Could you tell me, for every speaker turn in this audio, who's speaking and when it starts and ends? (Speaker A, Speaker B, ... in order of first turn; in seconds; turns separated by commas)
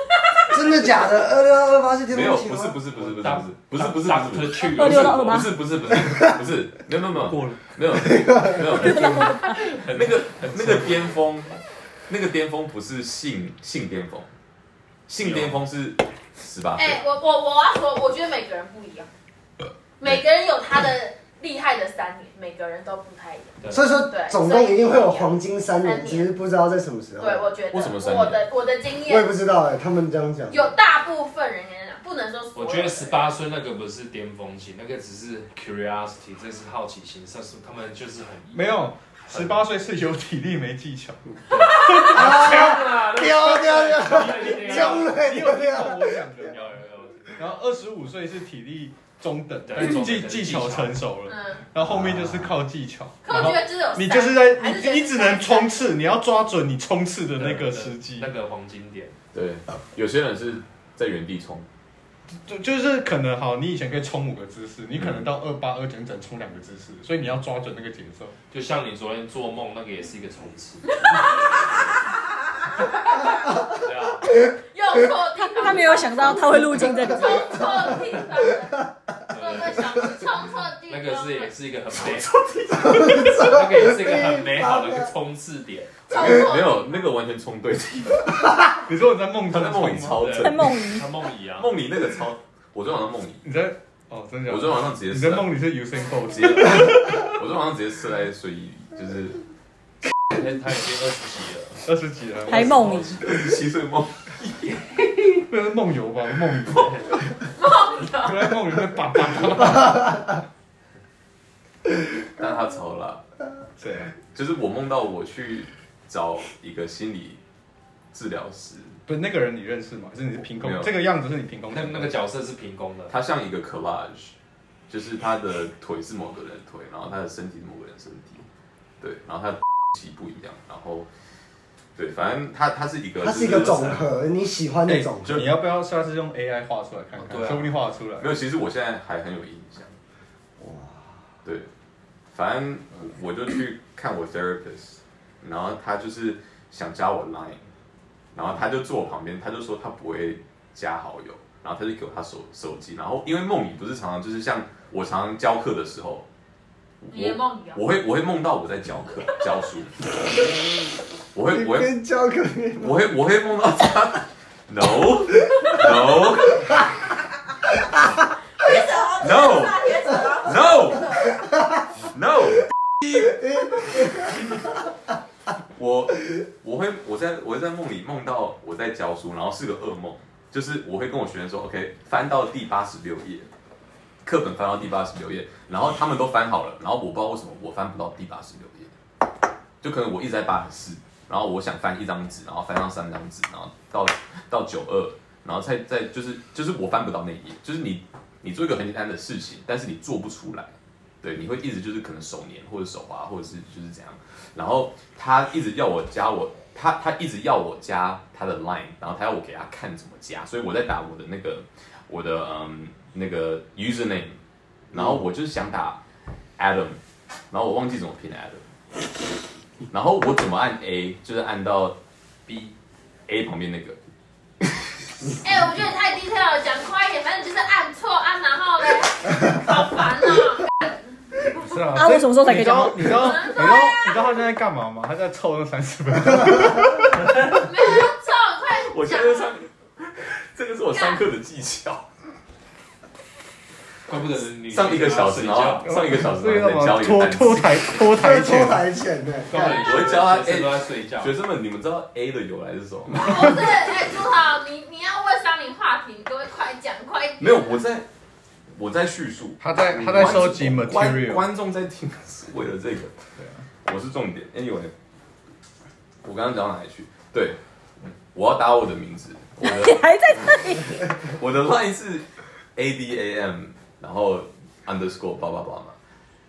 Speaker A: 0.5-2.8, Speaker B: 2.1-14.3, Speaker C: 2.9-5.5, Speaker D: 4.6-5.5, Speaker E: 7.2-7.7, Speaker A: 8.1-8.8, Speaker D: 8.8-9.6, Speaker C: 8.8-11.3, Speaker B: 15.1-17.0, Speaker C: 15.2-15.6, Speaker F: 16.8-19.1, Speaker F: 20.0-26.3, Speaker C: 23.6-23.9, Speaker A: 23.7-27.5, Speaker F: 27.2-29.3, Speaker B: 27.7-28.4, Speaker A: 29.0-30.7, Speaker F: 30.5-33.3, Speaker C: 32.5-39.6, Speaker E: 38.5-42.2, Speaker C: 41.5-45.2, Speaker A: 42.0-46.3, Speaker E: 44.7-46.8, Speaker C: 46.5-47.6, Speaker E: 47.3-58.3, Speaker C: 49.6-51.1, Speaker F: 51.2-51.6, Speaker F: 53.2-55.9, Speaker C: 53.3-53.5, Speaker C: 57.3-59.1, Speaker B: 59.3-61.6, Speaker E: 62.5-68.3, Speaker B: 65.0-65.2, Speaker C: 68.5-70.9, Speaker F: 72.8-73.7, Speaker C: 73.6-74.3, Speaker F: 74.6-81.5, Speaker D: 75.3-77.5, Speaker C: 79.3-80.2, Speaker C: 80.9-86.0, Speaker A: 82.9-85.0, Speaker F: 86.1-87.1, Speaker B: 86.1-88.5, Speaker E: 88.8-90.3, Speaker B: 89.5-91.0, Speaker C: 90.1-91.7, Speaker D: 90.4-91.1, Speaker B: 91.5-93.4, Speaker E: 93.4-97.3, Speaker B: 94.5-95.5, Speaker B: 96.3-99.4, Speaker C: 100.3-101.8, Speaker E: 101.8-103.2, Speaker D: 102.5-103.2, Speaker C: 102.5-103.1, Speaker B: 103.1-104.5, Speaker E: 105.3-107.1, Speaker C: 106.7-107.2, Speaker F: 107.5-108.5, Speaker E: 108.1-110.4, Speaker B: 112.4-113.2, Speaker E: 113.8-114.1, Speaker B: 114.3-117.4, Speaker B: 118.1-119.0, Speaker E: 119.1-122.2, Speaker B: 120.5-120.9, Speaker C: 121.7-123.1, Speaker B: 123.1-124.3, Speaker B: 124.9-128.4, Speaker B: 129.0-131.1, Speaker B: 131.9-134.0, Speaker A: 133.2-135.5, Speaker C: 133.4-134.0, Speaker E: 134.9-138.4, Speaker C: 137.1-137.8, Speaker B: 138.2-140.0, Speaker A: 140.6-141.2, Speaker B: 141.4-141.7, Speaker B: 142.3-147.6, Speaker B: 148.3-156.2, Speaker B: 157.0-160.0, Speaker F: 157.1-157.8, Speaker B: 161.3-161.9, Speaker A: 161.5-163.0, Speaker B: 162.8-166.8, Speaker F: 168.6-171.3, Speaker B: 169.2-171.2, Speaker B: 172.0-174.3, Speaker A: 173.4-174.3, Speaker B: 175.7-183.5, Speaker B: 184.2-188.9, Speaker B: 189.8-214.4, Speaker B: 214.9-216.0, Speaker B: 216.6-218.6, Speaker B: 219.9-222.0, Speaker C: 222.5-222.7, Speaker B: 223.3-224.0, Speaker F: 225.4-231.8, Speaker E: 231.5-237.7, Speaker D: 231.9-233.5, Speaker F: 233.0-234.4, Speaker F: 237.5-239.5, Speaker B: 238.8-242.1, Speaker F: 240.9-241.2, Speaker C: 244.1-245.9, Speaker B: 244.7-247.9, Speaker E: 245.8-248.8, Speaker A: 248.1-249.8, Speaker C: 249.5-251.3, Speaker B: 249.5-253.3, Speaker F: 253.2-257.8, Speaker B: 257.4-258.1, Speaker B: 258.7-263.1, Speaker E: 259.6-261.5, Speaker C: 260.0-260.2, Speaker E: 263.4-263.6, Speaker B: 263.8-264.9, Speaker B: 266.2-267.6, Speaker B: 268.3-270.1, Speaker D: 269.6-271.0, Speaker B: 271.0-275.9